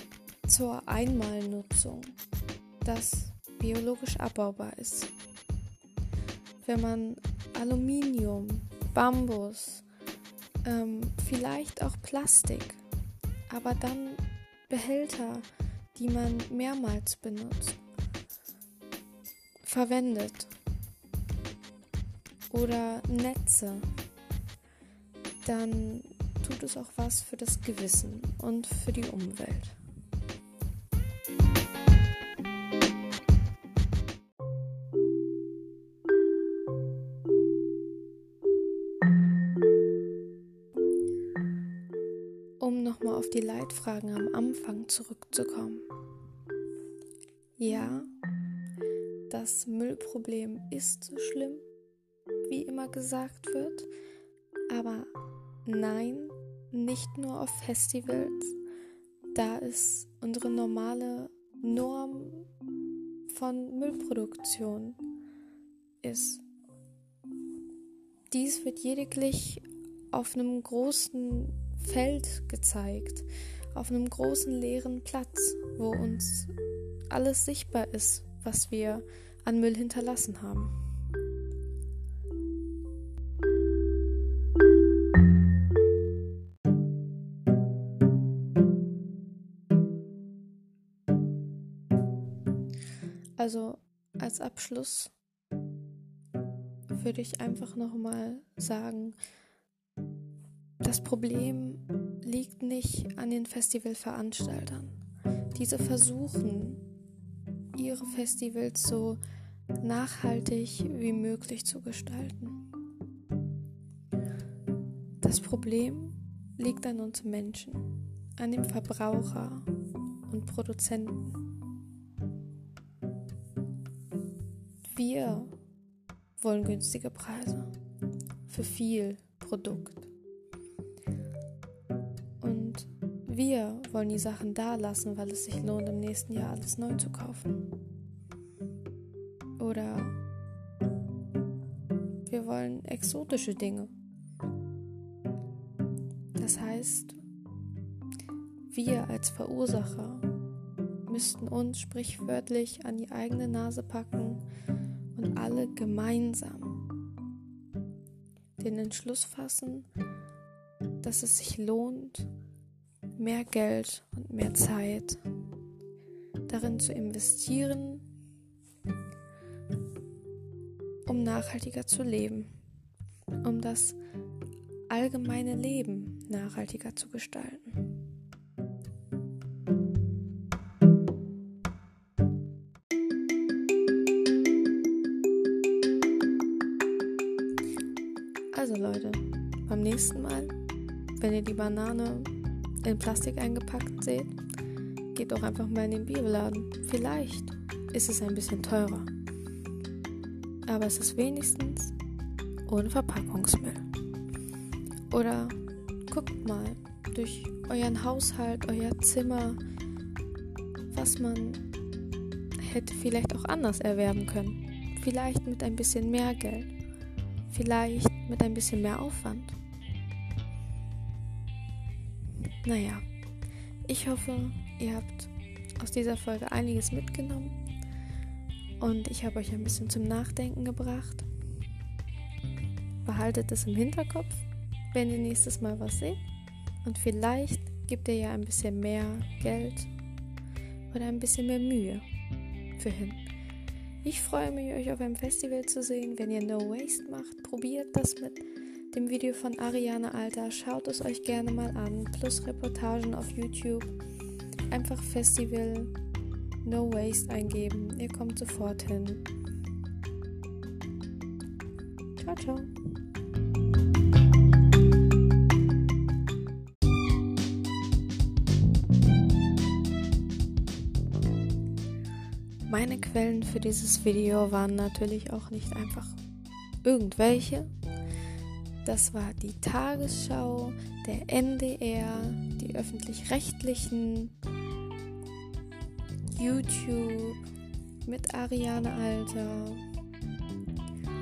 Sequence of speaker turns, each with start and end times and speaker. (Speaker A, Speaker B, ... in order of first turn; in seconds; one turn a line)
Speaker A: 0.5-2.2
Speaker A: 2.8-5.1
Speaker A: 6.6-9.8
Speaker A: 10.6-12.8
Speaker A: 13.5-17.8
Speaker A: 19.6-20.5
Speaker A: 22.5-23.9
Speaker A: 25.4-29.8
Speaker A: 42.6-45.9
Speaker A: 47.6-48.1
Speaker A: 49.3-51.6
Speaker A: 52.4-53.9
Speaker A: 54.7-55.1
Speaker A: 55.6-58.5
Speaker A: 59.3-62.5
Speaker A: 63.3-65.0
Speaker A: 66.0-66.4
Speaker A: 68.3-76.5
Speaker A: 77.1-80.7
Speaker A: 93.4-95.1
Speaker A: 96.9-99.2
Speaker A: 100.8-105.0
Speaker A: 105.5-106.8
Speaker A: 107.7-109.2
Speaker A: 109.8-112.6
Speaker A: 115.2-119.7
Speaker A: 120.3-121.4
Speaker A: 124.8-125.5
Speaker A: 126.4-127.7
Speaker A: 128.4-130.1
Speaker A: 132.4-137.7
Speaker A: 139.6-140.2
Speaker A: 142.2-143.9
Speaker A: 146.3-147.2
Speaker A: 148.7-150.2
Speaker A: 151.1-154.4
Speaker A: 155.1-156.8
Speaker A: 158.6-159.9
Speaker A: 161.0-162.3
Speaker A: 163.2-165.2
Speaker A: 166.5-168.1
Speaker A: 171.1-172.5
Speaker A: 173.4-174.0
Speaker A: 174.9-178.0
Speaker A: 188.5-190.5
Speaker A: 191.2-194.3
Speaker A: 195.1-199.1
Speaker A: 200.7-201.9
Speaker A: 202.7-203.8
Speaker A: 205.1-209.6
Speaker A: 210.9-211.6
Speaker A: 212.6-216.7
Speaker A: 217.5-219.6
Speaker A: 222.6-223.0
Speaker A: 223.8-227.6
Speaker A: 228.8-231.2
Speaker A: 233.0-236.2
Speaker A: 236.8-239.9
Speaker A: 240.9-242.0
Speaker A: 242.8-243.2
Speaker A: 244.0-253.9
Speaker A: 254.7-255.9
Speaker A: 256.6-259.2
Speaker A: 262.2-262.7
Speaker A: 272.6-276.2
Speaker A: 276.8-277.7
Speaker A: 278.8-284.3
Speaker A: 286.3-287.4
Speaker A: 288.0-289.8